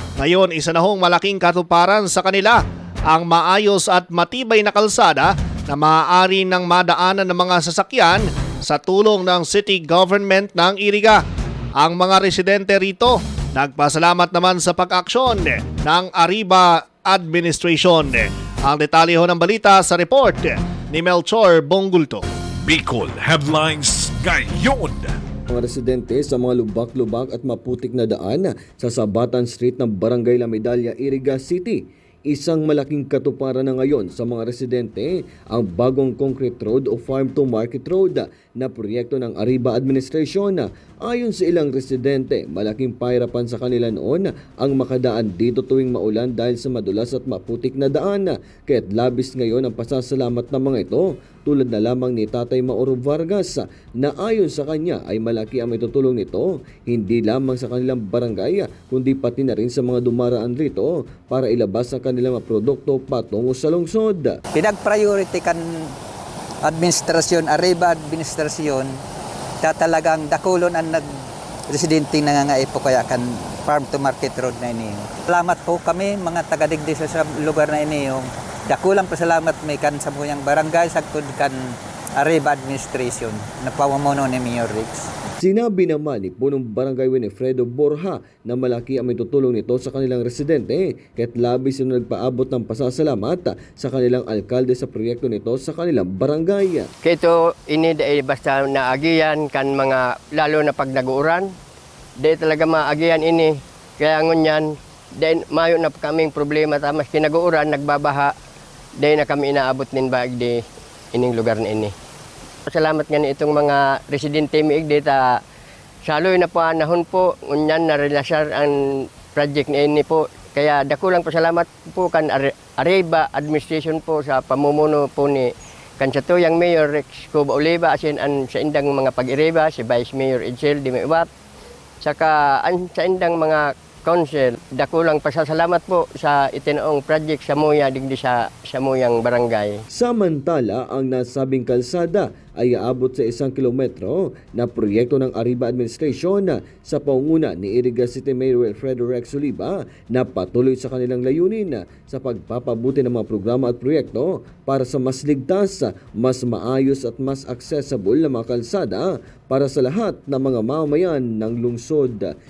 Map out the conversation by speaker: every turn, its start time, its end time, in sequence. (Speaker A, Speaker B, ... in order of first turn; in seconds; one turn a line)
Speaker A: 0.2-11.2
Speaker A: 11.8-22.2
Speaker B: 22.6-25.2
Speaker C: 25.5-64.4
Speaker D: 64.5-65.9
Speaker D: 66.6-69.0
Speaker D: 69.6-71.1
Speaker D: 71.7-85.1
Speaker C: 85.4-96.9
Speaker E: 97.0-101.5
Speaker E: 102.2-108.3
Speaker E: 109.0-110.6
Speaker E: 111.1-111.9
Speaker E: 112.7-115.2
Speaker E: 116.0-118.7
Speaker E: 119.3-131.3
Speaker E: 132.0-139.8
Speaker C: 139.9-162.3